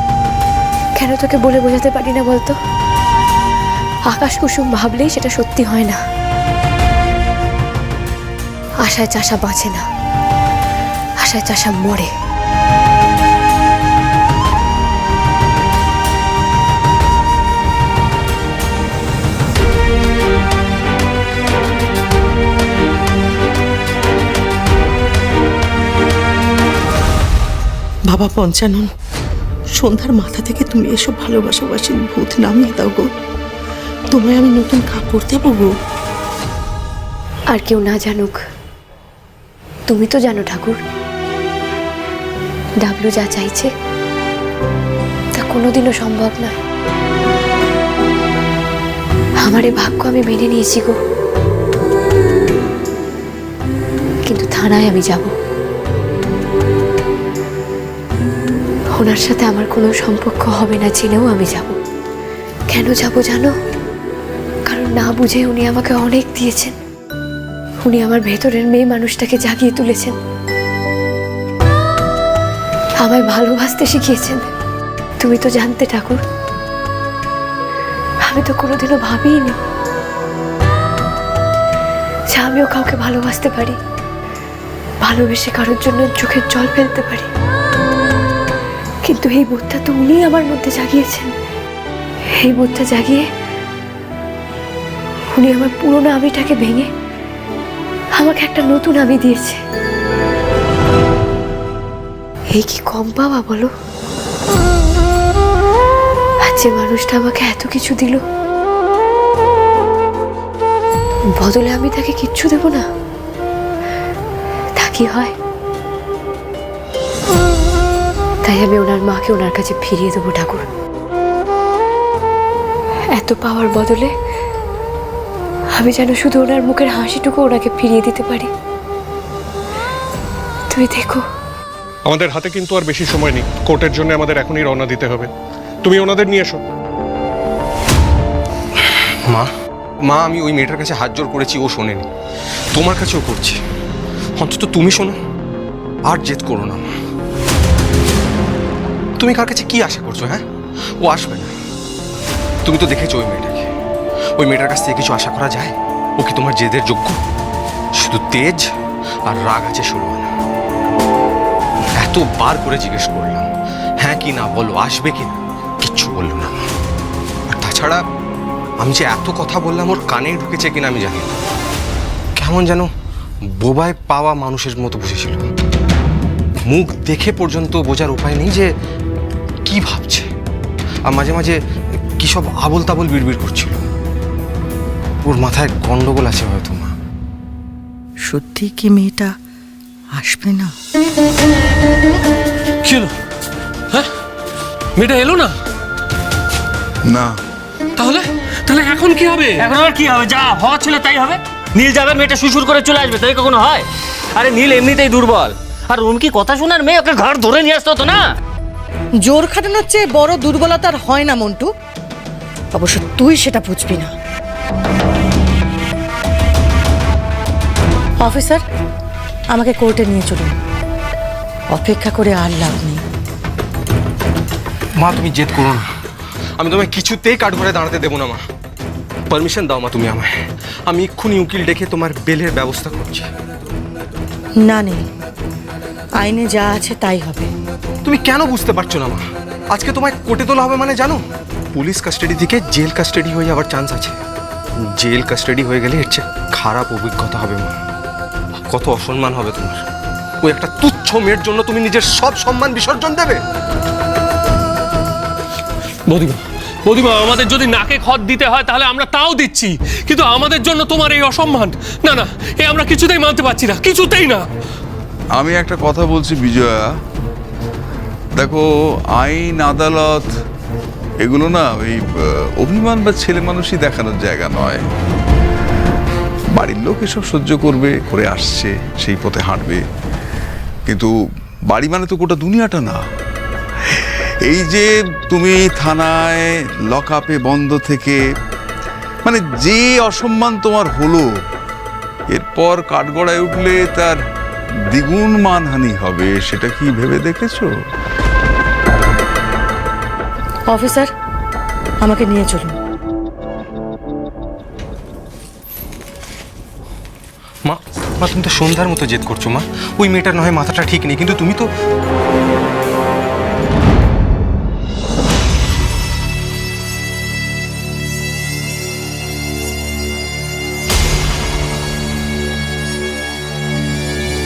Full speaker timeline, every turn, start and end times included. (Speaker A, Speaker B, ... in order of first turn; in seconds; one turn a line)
Speaker A: 0.9-2.5
Speaker A: 4.1-6.0
Speaker A: 8.8-9.8
Speaker A: 11.2-12.1
Speaker B: 28.1-28.9
Speaker B: 29.8-33.1
Speaker B: 34.1-35.7
Speaker A: 37.5-38.4
Speaker A: 39.9-40.8
Speaker A: 42.8-43.7
Speaker A: 45.3-46.6
Speaker A: 49.4-51.0
Speaker A: 54.2-55.3
Speaker A: 58.9-61.8
Speaker A: 62.7-63.5
Speaker A: 64.7-66.7
Speaker A: 67.8-70.2
Speaker A: 73.0-74.5
Speaker A: 75.2-76.2
Speaker A: 78.2-79.6
Speaker A: 82.3-83.8
Speaker A: 85.0-87.3
Speaker A: 89.0-91.3
Speaker A: 92.3-93.2
Speaker A: 95.3-96.9
Speaker A: 98.2-99.6
Speaker A: 102.5-103.7
Speaker A: 106.4-108.2
Speaker A: 111.4-112.8
Speaker A: 114.8-115.3
Speaker A: 118.4-120.6
Speaker A: 123.1-124.1
Speaker A: 125.7-128.5
Speaker A: 130.7-131.2
Speaker C: 132.1-135.3
Speaker C: 135.8-136.6
Speaker D: 138.8-139.5
Speaker D: 140.1-142.1
Speaker D: 142.7-143.6
Speaker D: 144.4-145.2
Speaker D: 146.1-146.9
Speaker D: 149.2-150.4
Speaker D: 151.0-151.5
Speaker D: 152.6-153.7
Speaker D: 154.4-157.2
Speaker D: 158.0-158.7
Speaker D: 159.2-160.3
Speaker D: 162.0-163.5
Speaker D: 164.0-166.7
Speaker D: 167.5-168.0
Speaker D: 168.8-171.4
Speaker D: 172.4-172.9
Speaker D: 173.6-175.4
Speaker D: 176.7-178.7
Speaker D: 179.7-180.3
Speaker D: 181.1-181.5
Speaker D: 182.2-183.8
Speaker D: 185.2-187.0
Speaker E: 188.3-189.3
Speaker E: 190.2-190.7
Speaker F: 192.8-193.1
Speaker F: 194.9-195.5
Speaker G: 197.1-197.4
Speaker F: 198.0-199.7
Speaker H: 199.6-208.3
Speaker E: 209.3-211.6
Speaker E: 212.8-214.1
Speaker E: 218.3-218.6
Speaker E: 219.6-220.5
Speaker E: 221.8-223.0
Speaker D: 225.0-225.8
Speaker D: 226.6-228.4
Speaker D: 229.3-230.3
Speaker D: 230.9-233.3
Speaker E: 234.7-235.0
Speaker E: 236.3-237.4
Speaker D: 238.0-241.2
Speaker D: 241.7-244.2
Speaker D: 244.8-247.8
Speaker D: 248.7-249.8
Speaker D: 250.4-253.4
Speaker F: 256.1-264.5
Speaker G: 265.4-266.8
Speaker G: 268.4-270.3
Speaker G: 271.2-272.1
Speaker G: 272.6-274.8
Speaker G: 276.5-279.8
Speaker G: 280.9-281.1
Speaker G: 281.7-283.0
Speaker G: 283.9-288.2
Speaker G: 289.2-291.2
Speaker G: 292.3-294.2
Speaker G: 294.9-297.7
Speaker E: 300.7-301.1
Speaker E: 302.0-302.7
Speaker D: 307.6-311.7